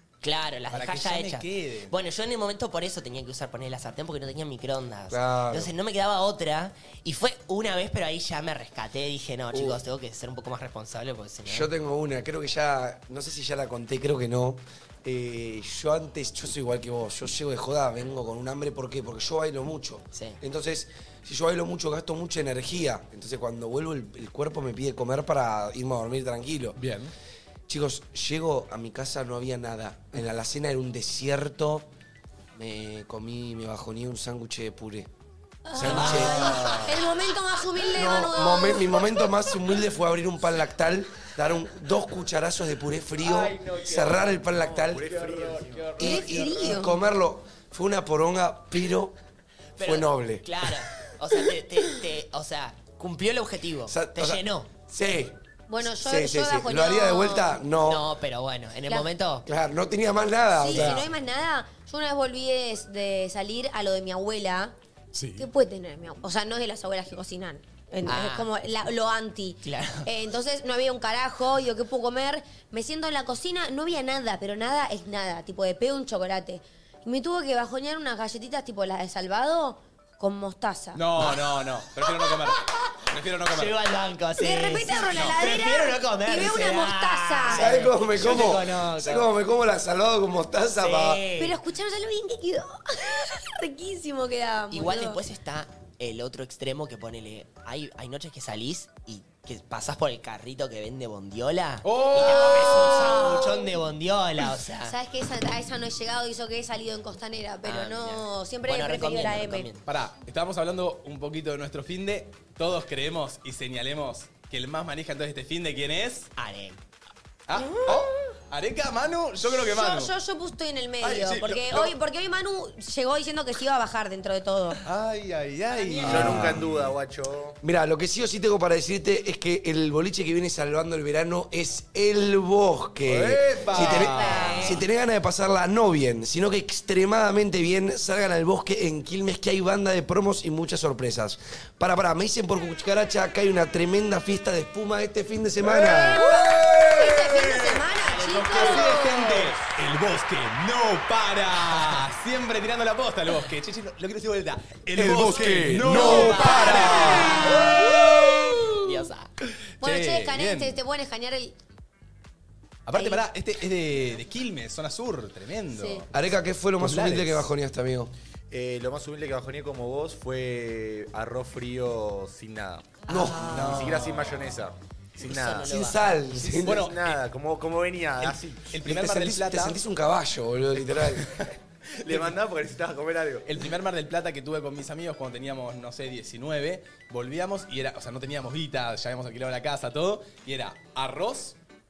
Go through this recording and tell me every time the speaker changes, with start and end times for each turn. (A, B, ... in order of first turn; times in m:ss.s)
0:00.2-0:11.7 A
0:00.7-0:01.9 B
0:05.1-0:05.7 C
0:09.5-0:09.8 C
0:11.4-0:26.8 C
0:20.1-0:20.4 A
0:26.8-0:27.1 B
0:27.7-0:31.9 C
0:32.5-0:35.1 C
0:35.6-0:39.4 D
0:35.7-0:36.9 C
0:35.8-0:36.9 B
0:35.9-0:36.4 A
0:37.9-0:45.2 C
0:43.3-0:46.7 B
0:43.5-0:44.1 E
0:44.7-0:46.2 E
0:46.0-0:49.1 C
0:46.0-0:47.0 D
0:49.8-0:54.7 A
0:49.8-0:50.7 C
0:53.9-0:58.0 C
0:55.7-0:57.6 D
0:57.8-0:59.4 A
0:59.4-1:01.1 C
1:00.6-1:04.7 D
1:05.1-1:05.5 B
1:05.4-1:21.0 D
1:08.0-1:08.5 A
1:09.6-1:10.1 A
1:20.9-1:23.8 B
1:23.5-1:29.3 A
1:24.4-1:27.8 D
1:27.5-1:31.2 C
1:30.8-1:31.6 A
1:31.4-1:35.2 D
1:34.7-1:44.9 A
1:41.8-1:43.3 B
1:42.2-1:43.7 D
1:44.8-1:49.7 D
1:47.6-1:49.9 A
1:49.8-1:56.3 B
1:56.4-1:56.8 A
1:57.5-2:00.1 B
1:57.6-1:58.0 D
1:59.4-2:04.8 D
2:01.0-2:01.9 B
2:04.8-2:06.7 B
2:06.0-2:06.7 C
2:06.0-2:07.6 E
2:07.6-2:26.2 C
2:13.1-2:14.6 B
2:13.8-2:14.8 A
2:13.8-2:14.7 D
2:25.6-2:38.8 B
2:25.9-2:29.5 D
2:28.0-2:28.9 A
2:35.0-2:37.5 C
2:35.9-2:37.9 A
2:36.3-2:36.9 D
2:37.6-2:38.5 D
2:38.8-2:39.3 A
2:39.8-2:40.8 B
2:39.8-2:41.5 D
2:42.9-2:46.1 B
2:42.9-2:43.2 D
2:45.7-2:46.0 D
2:46.1-2:48.1 C
2:46.8-2:47.5 B
2:48.5-2:55.7 E
2:53.0-2:53.8 A
2:53.1-2:53.8 C
2:53.4-2:54.5 B
2:55.2-2:56.6 A
2:55.6-2:56.9 C
2:56.4-2:57.2 B
2:56.7-2:58.7 E
2:58.2-2:59.8 B
2:58.8-3:01.3 C
3:00.9-3:02.4 B
3:02.0-3:03.5 E
3:03.4-3:11.6 B